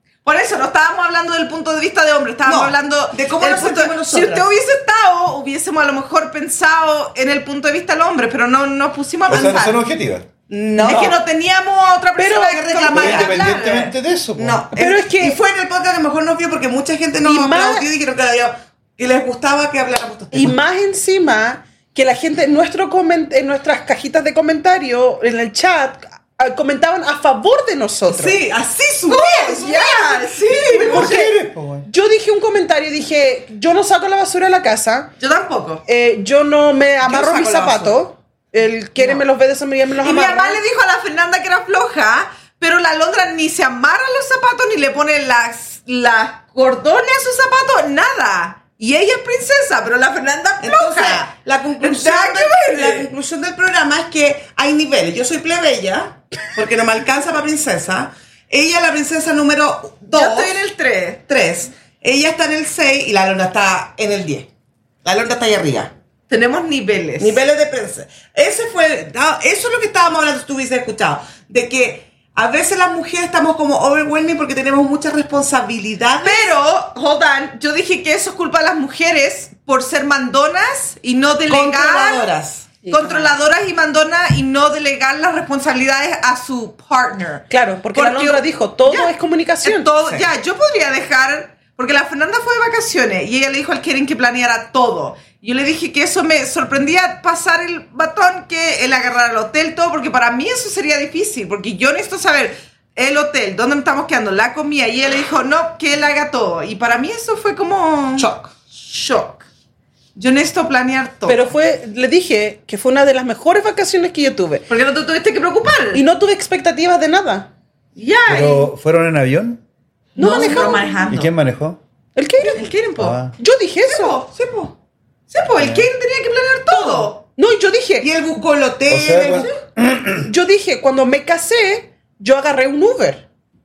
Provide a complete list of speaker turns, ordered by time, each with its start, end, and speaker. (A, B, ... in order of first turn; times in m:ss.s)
0:00.2-0:09.8 A
0:02.4-0:04.5 B
0:09.3-0:10.3 C
0:10.5-0:11.2 B
0:10.8-0:13.9 A
0:10.8-0:11.2 D
0:12.2-0:12.6 D
0:12.4-0:13.5 B
0:12.9-0:14.6 C
0:14.4-0:20.6 B
0:14.8-0:15.4 D
0:17.2-0:17.9 D
0:20.3-0:28.4 D
0:28.1-0:30.8 B
0:29.1-0:31.2 A
0:30.7-0:31.9 C
0:30.7-0:35.1 D
0:35.2-0:35.8 A
0:35.9-0:40.6 D
0:37.0-0:38.0 B
0:40.0-0:53.1 A
0:50.6-1:00.6 B
1:00.1-1:01.2 A
1:01.3-1:04.5 B
1:05.0-1:05.9 B
1:06.3-1:07.4 A
1:07.2-1:16.5 B
1:16.2-1:22.3 A
1:21.5-1:22.7 B
1:22.8-1:23.3 D
1:22.8-1:29.1 A
1:27.5-1:29.9 D
1:29.6-1:49.4 A
1:48.2-1:48.5 B
1:50.2-1:51.4 A
1:51.2-1:54.6 D
1:54.7-1:56.0 A
1:55.9-1:57.5 D
1:58.0-1:58.7 A
1:58.3-1:59.6 C
2:00.2-2:01.0 D
2:00.2-2:01.3 A
2:01.0-2:01.8 C
2:02.2-2:02.7 D
2:02.5-2:03.2 A
2:03.0-2:03.3 C
2:03.4-2:04.2 D
2:03.8-2:04.3 A
2:04.3-2:04.7 B
2:05.3-2:07.2 A
2:05.6-2:05.9 C
2:06.7-2:07.1 B
2:07.4-2:08.1 D
2:08.0-2:09.5 B
2:08.9-2:10.3 C
2:10.2-2:13.2 D